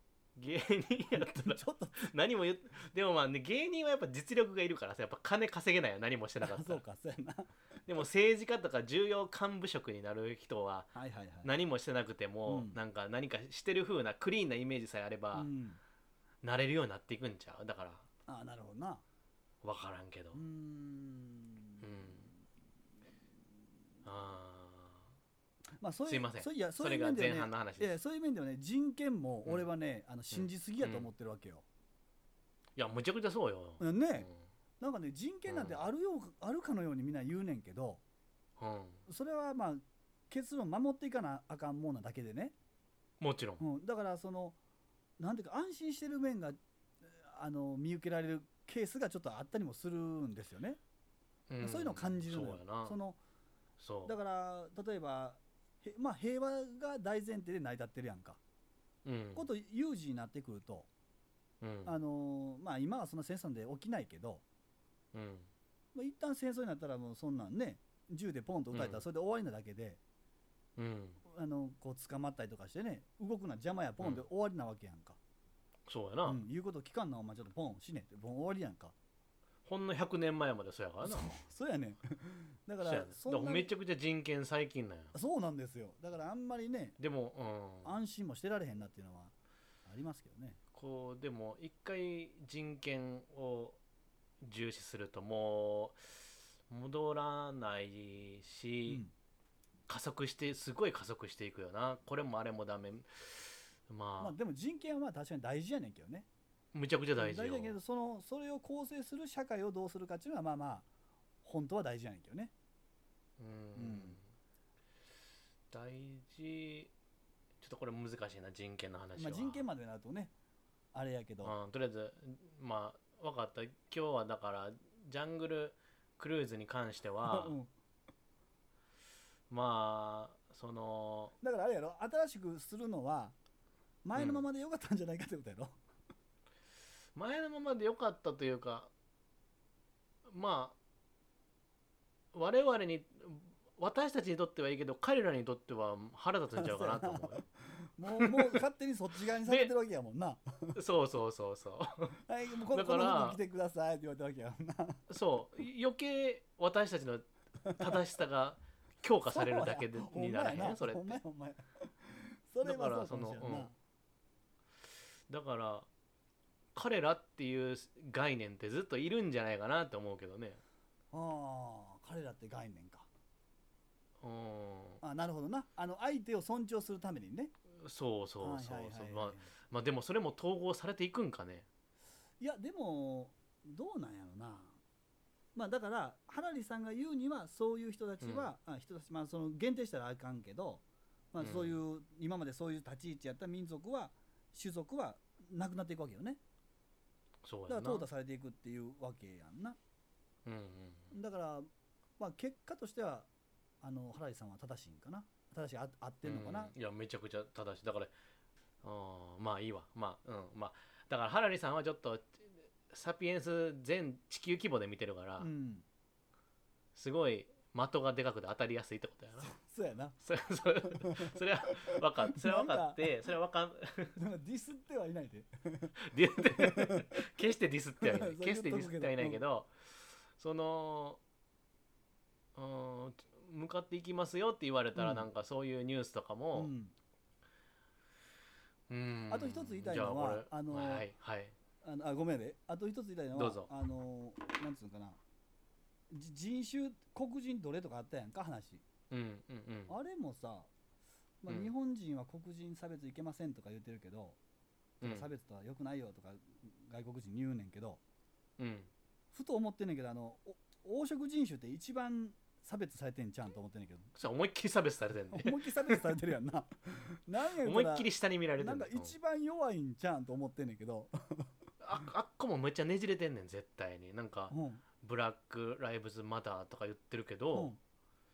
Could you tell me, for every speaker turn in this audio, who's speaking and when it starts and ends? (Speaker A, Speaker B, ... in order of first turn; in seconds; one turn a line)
Speaker A: 0.4-6.8
Speaker B: 1.1-2.1
Speaker B: 6.4-7.5
Speaker A: 7.9-15.5
Speaker B: 10.9-11.5
Speaker B: 12.5-12.8
Speaker B: 15.3-15.8
Speaker A: 16.4-18.1
Speaker B: 18.3-19.0
Speaker A: 19.6-20.4
Speaker B: 20.3-22.2
Speaker A: 21.8-22.2
Speaker A: 24.1-25.1
Speaker B: 25.8-31.6
Speaker A: 26.1-27.9
Speaker A: 30.3-31.1
Speaker A: 32.8-34.4
Speaker B: 33.8-34.3
Speaker B: 34.8-38.0
Speaker A: 35.5-35.8
Speaker A: 38.6-39.0
Speaker B: 39.1-42.5
Speaker A: 43.2-43.6
Speaker B: 43.6-44.6
Speaker B: 45.2-50.8
Speaker A: 51.5-53.0
Speaker B: 51.6-53.2
Speaker A: 53.8-54.1
Speaker B: 54.1-58.4
Speaker A: 59.0-59.5
Speaker B: 59.4-60.9
Speaker A: 61.6-61.9
Speaker B: 61.9-64.4
Speaker A: 65.1-65.5
Speaker B: 65.9-70.0
Speaker A: 68.7-69.0
Speaker A: 70.8-71.2
Speaker B: 71.3-75.2
Speaker A: 75.9-76.4
Speaker B: 76.3-78.9
Speaker A: 79.7-81.3
Speaker B: 81.0-83.7
Speaker A: 82.8-85.1
Speaker B: 85.1-87.0
Speaker A: 87.0-88.0
Speaker B: 87.8-89.3
Speaker B: 89.9-90.6
Speaker A: 90.7-93.8
Speaker A: 94.4-99.0
Speaker A: 99.9-104.3
Speaker B: 104.2-106.3
Speaker A: 106.7-107.8
Speaker B: 107.2-110.9
Speaker B: 111.4-112.5
Speaker A: 113.4-114.2
Speaker B: 113.8-114.2
Speaker A: 115.7-116.9
Speaker A: 117.6-119.7
Speaker B: 119.2-120.3
Speaker B: 120.9-121.5
Speaker A: 121.4-127.5
Speaker B: 127.3-127.7
Speaker A: 129.5-131.3
Speaker B: 131.4-133.3
Speaker B: 134.0-135.8
Speaker A: 134.2-134.4
Speaker A: 137.2-138.9
Speaker A: 140.3-140.8
Speaker A: 142.3-147.4
Speaker B: 146.6-150.8
Speaker A: 148.1-148.6
Speaker A: 149.4-149.7
Speaker A: 150.8-152.2
Speaker B: 152.2-155.0
Speaker A: 152.7-153.4
Speaker A: 155.1-161.2
Speaker B: 157.7-158.0
Speaker B: 159.3-163.7
Speaker A: 162.6-163.7
Speaker A: 165.3-165.9
Speaker A: 166.8-170.6
Speaker B: 171.1-173.1
Speaker A: 174.2-175.0
Speaker B: 175.0-177.5
Speaker A: 177.8-181.7
Speaker B: 178.4-179.5
Speaker B: 182.4-184.8
Speaker B: 185.6-196.4
Speaker A: 188.2-188.5
Speaker A: 191.4-191.8
Speaker A: 197.4-198.1
Speaker B: 197.7-199.8
Speaker A: 200.5-201.1
Speaker B: 201.1-201.7
Speaker B: 202.2-203.3
Speaker B: 203.8-206.7
Speaker A: 206.2-208.1
Speaker A: 208.8-215.5
Speaker B: 215.4-215.8
Speaker A: 216.9-219.5
Speaker B: 219.4-220.2
Speaker A: 220.2-224.2
Speaker B: 220.9-223.1
Speaker B: 224.2-227.1
Speaker A: 226.0-231.2
Speaker B: 228.0-229.4
Speaker A: 232.6-236.7
Speaker B: 235.0-235.3
Speaker B: 236.6-236.9
Speaker A: 238.9-241.5
Speaker B: 239.3-241.1
Speaker B: 241.8-245.2
Speaker A: 243.3-243.7
Speaker B: 246.1-248.8
Speaker A: 249.1-250.0
Speaker B: 249.9-250.7
Speaker B: 251.4-254.4
Speaker A: 255.0-255.3
Speaker B: 255.0-258.0
Speaker A: 258.6-258.9
Speaker B: 259.3-264.1
Speaker A: 264.2-266.1
Speaker B: 265.3-271.5
Speaker A: 267.6-269.1
Speaker A: 271.8-277.7
Speaker B: 274.5-274.8